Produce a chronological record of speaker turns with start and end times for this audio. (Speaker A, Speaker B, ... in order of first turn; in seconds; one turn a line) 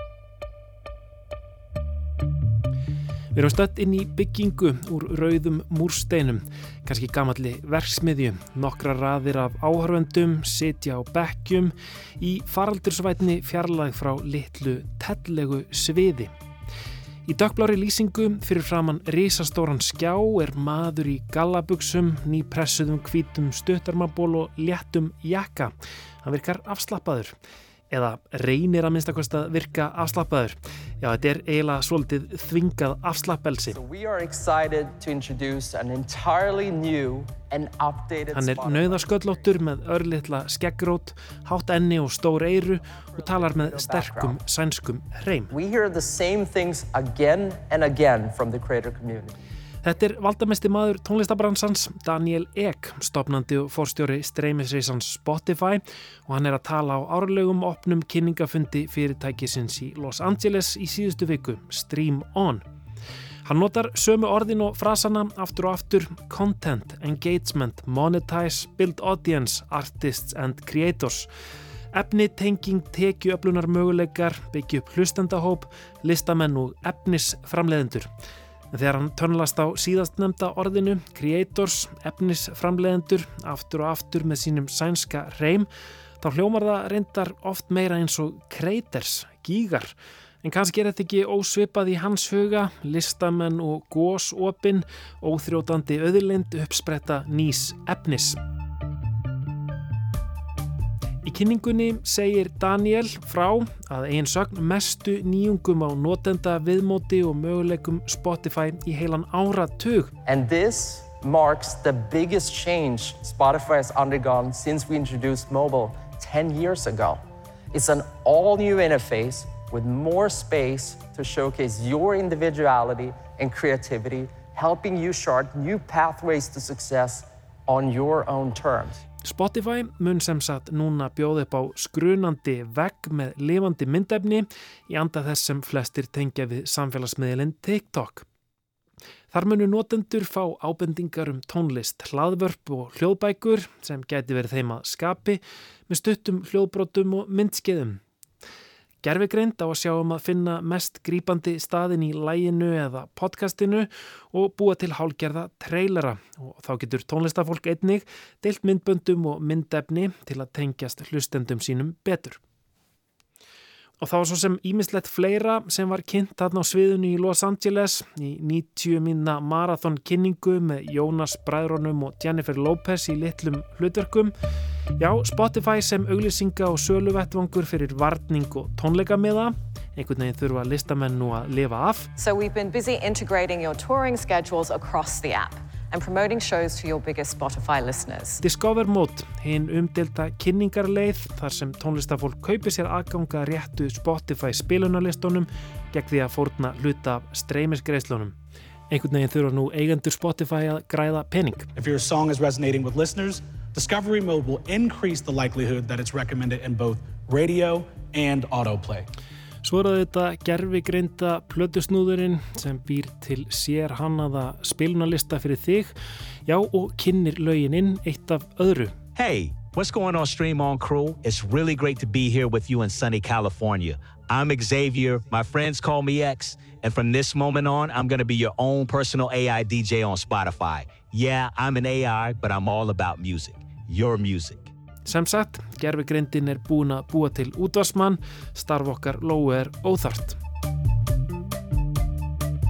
Speaker A: 3.3-16.3
Speaker A: 17.2-27.3
Speaker A: 27.9-33.8
Speaker B: 33.7-39.5
Speaker A: 38.3-45.5
Speaker B: 43.1-44.4
Speaker B: 45.5-49.3
Speaker A: 49.8-62.6
Speaker A: 63.4-71.3
Speaker A: 71.9-78.1
Speaker A: 78.7-85.7
Speaker A: 86.2-98.4
Speaker A: 101.2-110.1
Speaker B: 110.2-117.2
Speaker B: 117.7-129.0
Speaker A: 129.2-138.2
Speaker A: 139.3-148.0
Speaker A: 149.0-162.4
Speaker A: 164.0-174.3
Speaker A: 175.0-182.1
Speaker C: 182.2-188.4
Speaker A: 188.4-198.3
Speaker A: 198.9-201.7
Speaker D: 201.7-209.1
Speaker A: 209.6-215.9
Speaker A: 216.4-218.9
Speaker E: 219.1-234.7
Speaker A: 235.1-240.4